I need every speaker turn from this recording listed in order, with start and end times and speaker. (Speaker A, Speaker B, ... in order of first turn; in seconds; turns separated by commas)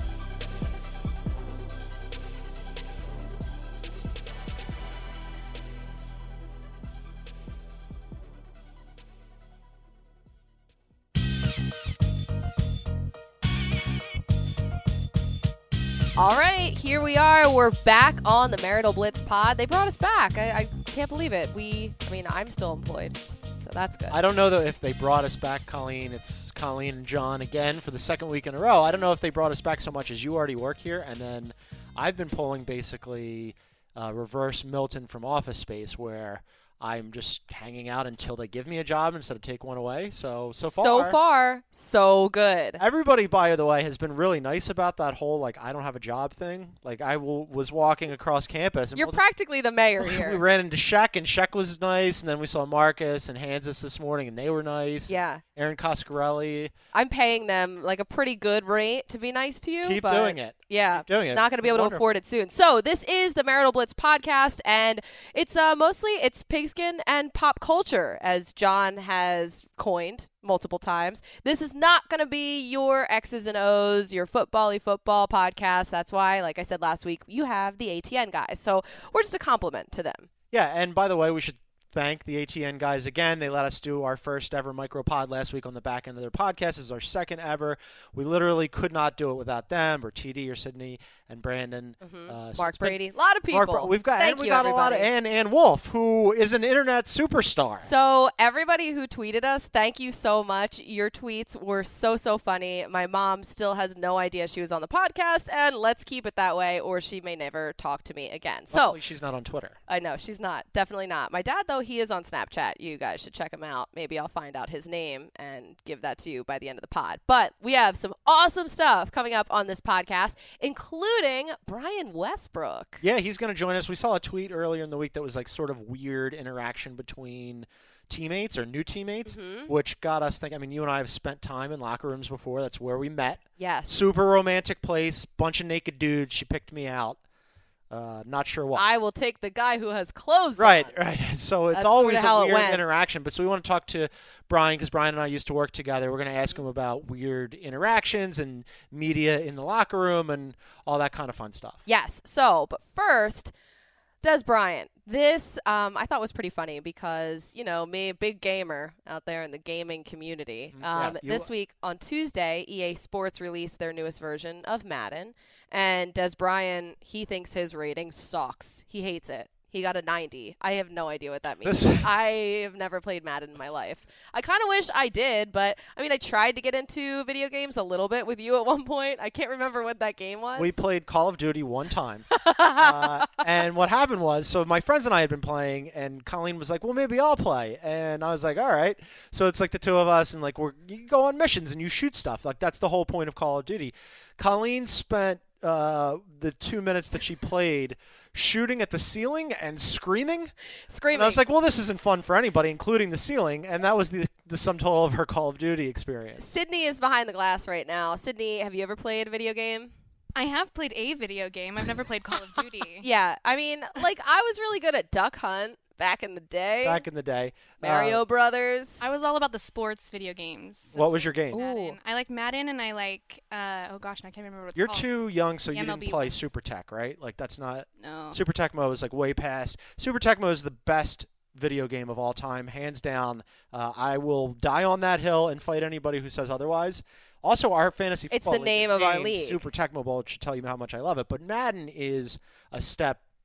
Speaker A: 16.2-24.2, Speaker B: 24.1-41.2, Speaker A: 40.6-42.8, Speaker B: 42.8-49.2, Speaker A: 49.0-50.4, Speaker B: 50.0-56.7, Speaker A: 55.1-55.4, Speaker A: 56.9-80.3, Speaker B: 59.8-62.2, Speaker B: 80.5-97.9, Speaker A: 92.0-95.1, Speaker A: 97.8-109.0, Speaker B: 108.7-109.8, Speaker A: 109.9-123.0, Speaker B: 123.0-137.2, Speaker A: 129.3-129.7, Speaker A: 133.6-134.0, Speaker B: 137.9-138.9, Speaker A: 138.7-140.9, Speaker B: 140.6-151.8, Speaker A: 141.7-142.8, Speaker A: 151.9-153.5, Speaker A: 154.2-180.8, Speaker B: 160.7-161.5, Speaker B: 171.6-172.1, Speaker B: 180.6-182.2, Speaker A: 182.3-183.3, Speaker B: 182.8-200.5, Speaker A: 200.9-201.4, Speaker B: 201.1-206.6, Speaker A: 206.4-209.9, Speaker C: 210.3-213.1, Speaker A: 213.0-217.1, Speaker B: 216.8-218.2, Speaker A: 217.8-219.1, Speaker C: 219.0-226.5, Speaker B: 220.9-221.6, Speaker A: 221.5-222.0, Speaker B: 224.8-243.2, Speaker C: 228.0-228.4, Speaker A: 238.3-239.7